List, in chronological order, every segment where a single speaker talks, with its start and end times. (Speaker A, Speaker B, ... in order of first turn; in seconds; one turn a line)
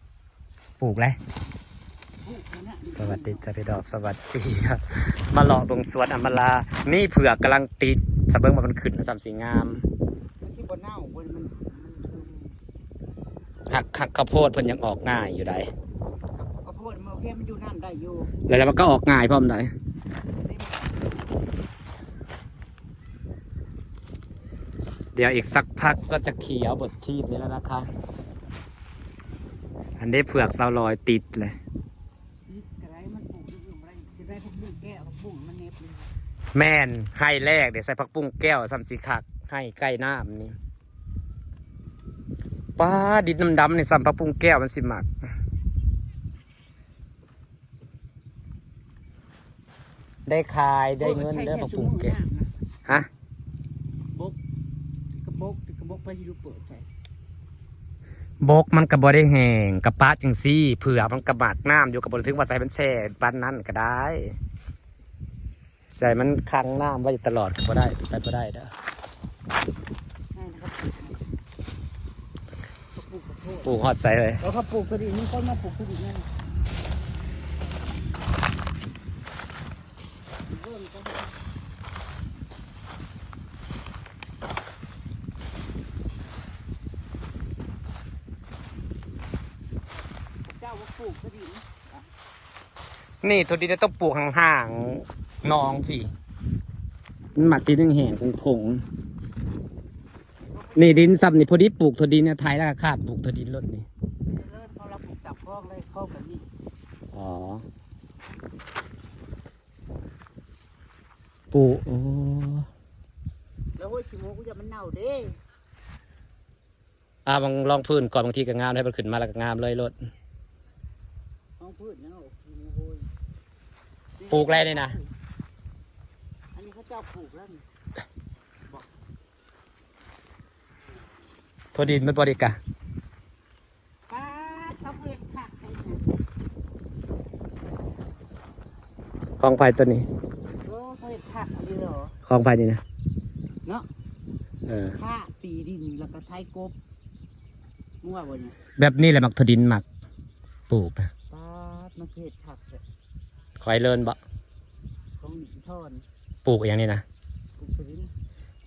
Speaker A: 0.8-1.2
Speaker B: 2.2-3.5
Speaker A: 3.0-9.8
Speaker B: 10.4-12.6
Speaker A: 13.7-15.7
Speaker B: 16.6-18.3
Speaker A: 18.5-19.7
Speaker B: 20.4-21.1
Speaker A: 25.1-27.9
Speaker A: 30.0-31.6
Speaker B: 32.5-36.1
Speaker A: 36.5-40.5
Speaker A: 42.8-45.1
Speaker A: 50.3-52.2
Speaker B: 51.0-52.5
Speaker B: 54.1-54.4
Speaker B: 55.2-56.9
Speaker A: 58.4-64.4
Speaker A: 65.9-68.7
Speaker B: 70.3-71.2
Speaker B: 72.9-73.7
Speaker A: 73.6-74.4
Speaker B: 74.4-76.3
Speaker B: 80.5-81.3
Speaker B: 90.5-92.0
Speaker A: 93.2-96.1
Speaker A: 97.3-98.8
Speaker B: 100.5-101.2
Speaker A: 100.8-103.9
Speaker B: 104.3-106.5
Speaker A: 107.1-107.7
Speaker A: 111.5-112.7
Speaker B: 113.8-115.4
Speaker A: 117.3-120.0
Speaker B: 121.6-123.1
Speaker B: 124.2-125.1
Speaker A: 124.3-125.0
Speaker B: 126.5-127.6
Speaker A: 131.7-132.6
Speaker B: 134.1-136.0
Speaker A: 139.4-140.1
Speaker B: 140.6-142.1
Speaker A: 142.3-142.8
Speaker A: 144.7-145.0
Speaker B: 144.9-146.8
Speaker B: 148.0-148.6
Speaker A: 148.8-149.8
Speaker A: 150.7-151.1
Speaker B: 151.3-152.8
Speaker A: 153.6-154.2
Speaker B: 155.2-156.1
Speaker A: 156.4-157.0
Speaker B: 157.6-158.1